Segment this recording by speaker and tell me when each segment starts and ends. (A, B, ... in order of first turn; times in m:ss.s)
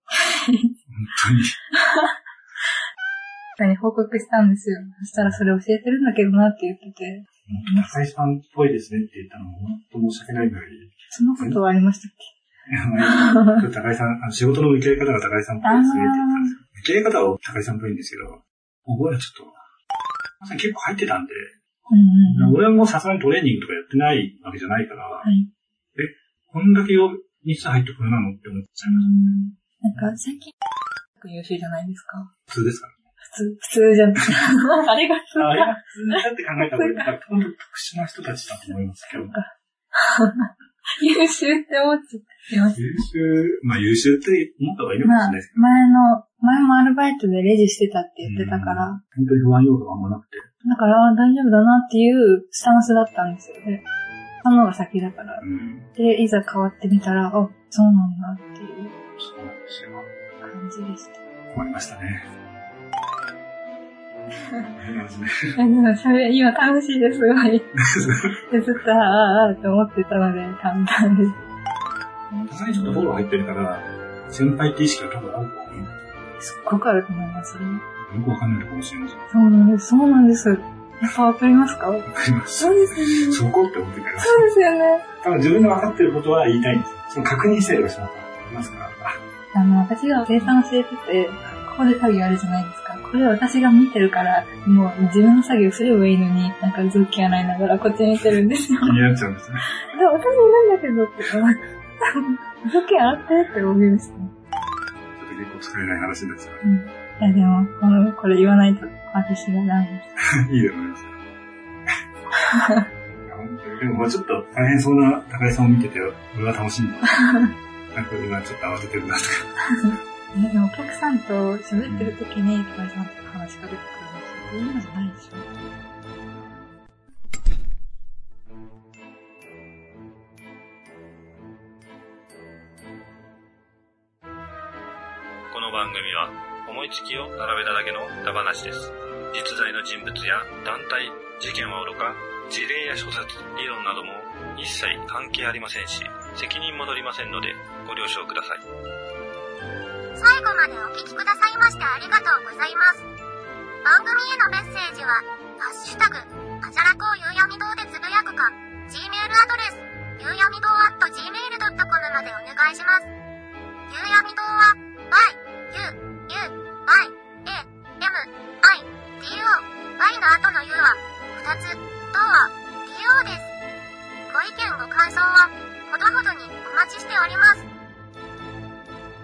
0:00.1-0:00.8 A
0:00.9-0:01.6 B
0:01.7-0:02.2 A
0:03.6-0:07.9 A
0:07.5-0:11.6 B
0:11.1-0:12.3 A
0:12.7-0:19.6 B
0:13.1-0:13.6 A
0:15.6-0:16.6 A
0:20.4-0:21.5 B
0:21.9-0:22.6 A
0:22.2-0:25.3 B
0:25.2-0:25.5 A
0:26.0-0:29.2 B
0:28.8-0:30.5 A
0:31.2-0:32.3 A
0:32.5-0:33.0 B
0:33.2-0:37.1 A
0:35.4-0:39.4 B
0:39.1-0:40.5 A
0:41.0-0:42.9 A
0:42.8-0:45.7 B
0:45.0-0:49.0 A
0:48.2-0:50.5 B
0:50.6-0:53.8 A
0:54.4-0:59.0 A
0:55.4-0:55.9 B
0:59.2-1:00.1 B
1:00.4-1:01.2 A
1:01.5-1:02.3 B
1:04.8-1:05.6 B
1:05.6-1:07.7 A
1:07.9-1:08.4 B
1:08.5-1:11.4 A
1:12.3-1:13.1 A
1:12.5-1:15.9 B
1:16.4-1:17.8 A
1:18.0-1:19.2 B
1:19.3-1:23.4 A
1:22.1-1:24.5 B
1:24.2-1:25.1 A
1:25.2-1:29.2 B
1:29.5-1:39.1 A
1:38.8-1:39.8 B
1:39.8-1:44.3 A
1:45.2-1:46.6 B
1:46.6-1:50.1 A
1:50.2-1:51.2 B
1:52.4-1:52.9 A
1:53.2-1:59.6 B
1:59.8-2:05.5 A
2:01.8-2:02.2 B
2:15.5-2:28.6 C
2:30.2-2:33.1 D
2:33.8-2:43.1 D
2:43.9-2:53.5 D
2:54.3-2:57.6 D